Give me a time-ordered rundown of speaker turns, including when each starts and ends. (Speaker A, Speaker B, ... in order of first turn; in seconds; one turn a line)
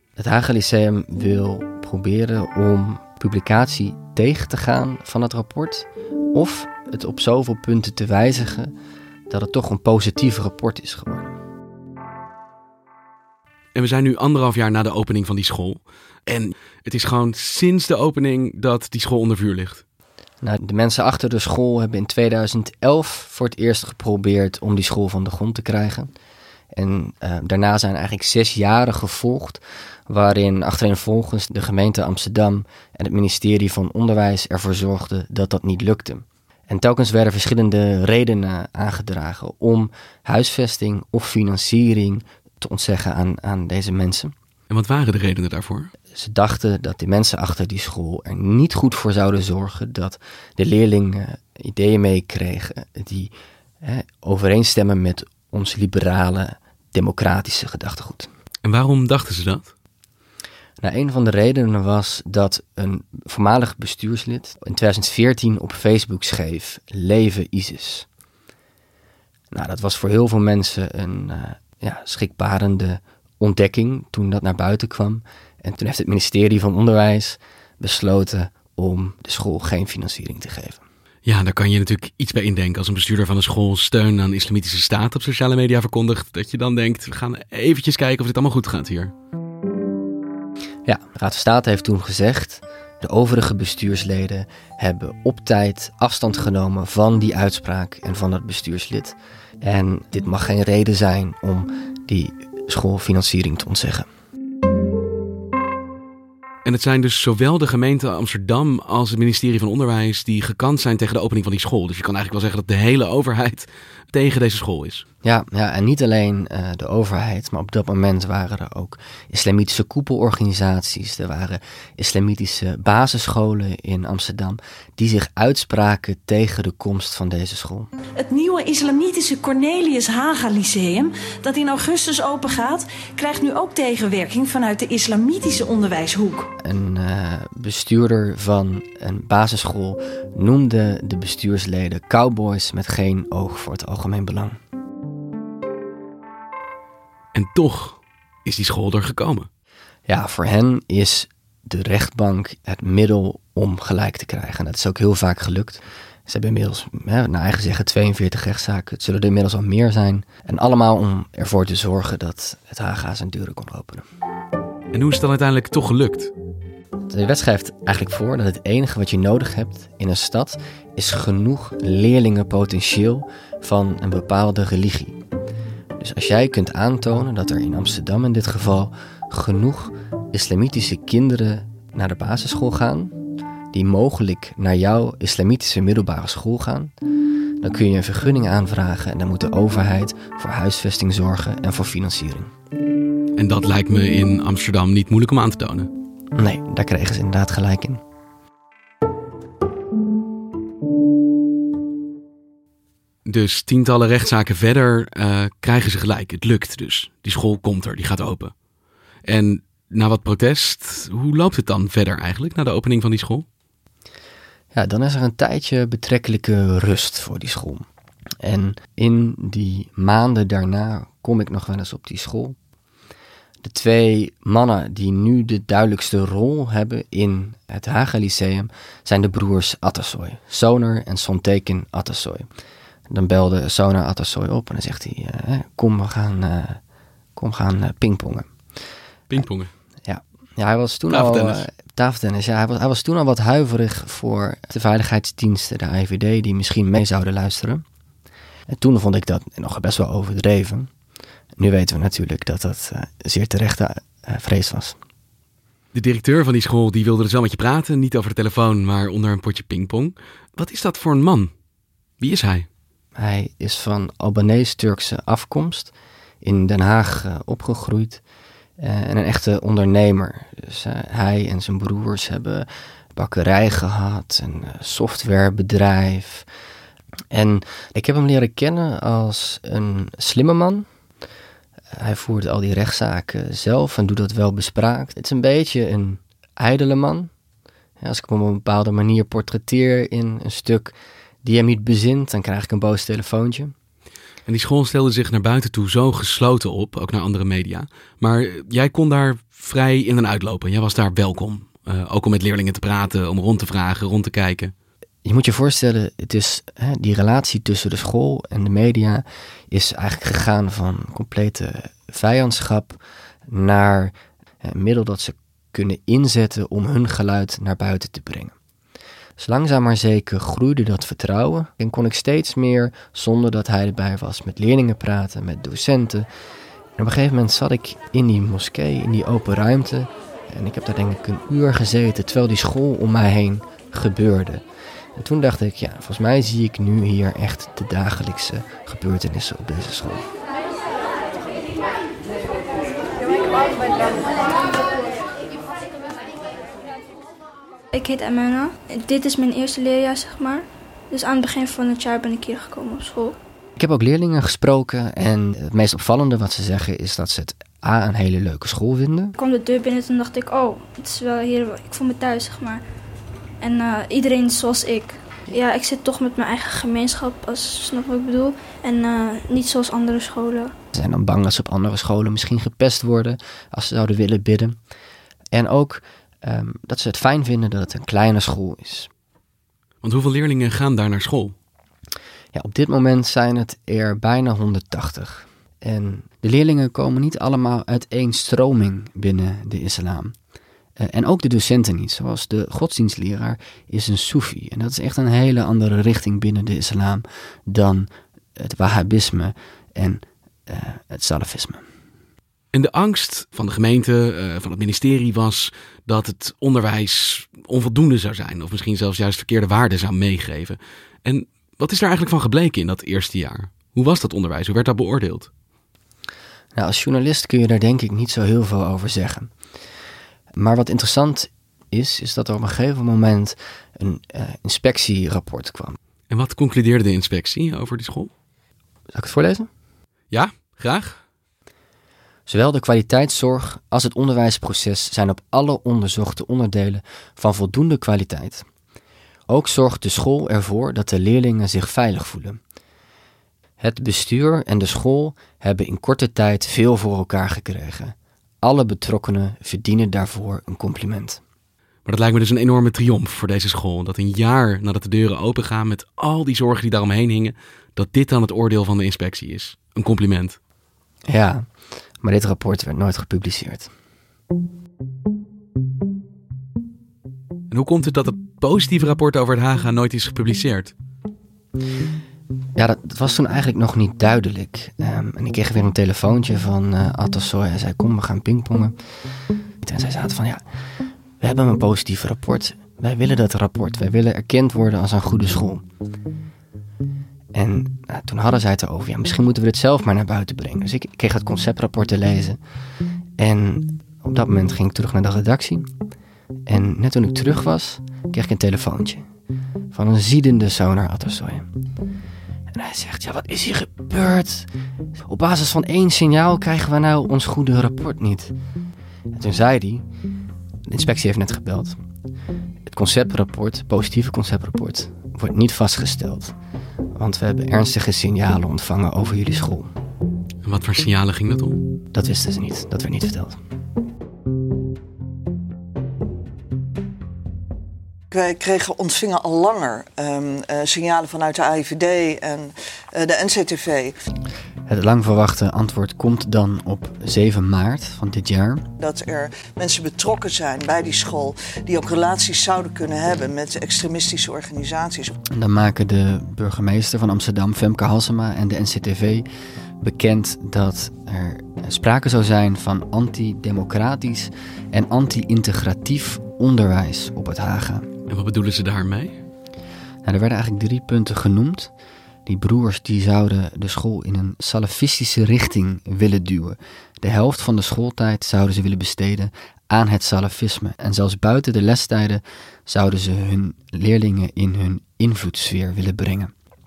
Speaker A: 0.2-8.7
Speaker A: 9.3-11.4
Speaker B: 13.8-19.8
Speaker A: 20.4-26.1
Speaker A: 26.7-44.3
Speaker B: 44.7-45.9
Speaker A: 46.1-58.3
Speaker B: 58.6-59.7
Speaker A: 60.8-68.1
Speaker A: 69.5-80.8
Speaker B: 81.2-89.1
Speaker A: 90.9-104.1
Speaker B: 106.7-115.0
Speaker A: 115.2-127.9
Speaker C: 128.2-136.5
Speaker A: 136.6-144.6
Speaker B: 147.3-149.5
Speaker A: 150.1-164.0
Speaker B: 164.9-166.3
Speaker A: 167.1-175.2
Speaker A: 176.0-183.2
Speaker A: 183.7-186.9
Speaker A: 187.6-192.5
Speaker B: 193.4-195.9
Speaker A: 196.3-198.0
Speaker B: 203.3-208.5
Speaker B: 209.3-213.4
Speaker A: 214.7-217.8
Speaker A: 218.4-222.6
Speaker A: 223.6-232.5
Speaker A: 233.1-236.8
Speaker A: 237.4-238.5
Speaker B: 239.3-239.7
Speaker A: 240.1-247.8
Speaker B: 241.1-241.7
Speaker A: 248.7-250.9
Speaker A: 251.6-255.0
Speaker B: 255.9-261.5
Speaker B: 262.2-262.7
Speaker A: 263.2-268.2
Speaker A: 268.8-276.5
Speaker A: 277.3-280.9
Speaker A: 281.9-287.3
Speaker A: 288.0-293.7
Speaker B: 294.5-304.7
Speaker A: 305.2-318.5
Speaker A: 319.4-326.3
Speaker A: 327.0-334.6
Speaker A: 335.2-340.2
Speaker D: 347.9-353.4
Speaker A: 353.8-359.3
Speaker D: 359.4-362.8
Speaker D: 363.6-370.7
Speaker A: 370.9-374.8
Speaker A: 375.5-379.1
Speaker B: 380.0-381.5
Speaker A: 382.5-390.3
Speaker A: 391.0-401.8
Speaker B: 402.7-415.5
Speaker A: 416.8-419.5
Speaker A: 420.5-426.0
Speaker B: 426.3-428.3
Speaker A: 429.1-429.7
Speaker B: 430.3-431.2
Speaker A: 432.5-438.6
Speaker A: 439.5-442.6
Speaker A: 443.8-451.4
Speaker B: 452.1-460.6
Speaker A: 461.3-461.7
Speaker A: 462.2-463.9
Speaker B: 467.7-470.9
Speaker A: 472.8-478.9
Speaker A: 479.8-480.6
Speaker A: 481.4-485.8
Speaker A: 487.5-492.6
Speaker A: 493.4-495.9
Speaker A: 496.7-499.2
Speaker A: 499.9-501.7
Speaker A: 502.7-504.7
Speaker A: 505.2-508.5
Speaker A: 509.3-510.1
Speaker A: 510.9-512.0
Speaker A: 512.9-516.5
Speaker A: 517.1-519.9
Speaker B: 520.6-521.8
Speaker A: 522.1-523.6
Speaker E: 528.3-534.1
Speaker A: 534.9-538.9
Speaker E: 539.0-545.3
Speaker A: 545.5-549.5
Speaker A: 550.0-558.1
Speaker B: 558.3-559.4
Speaker A: 560.2-561.9
Speaker A: 562.5-576.5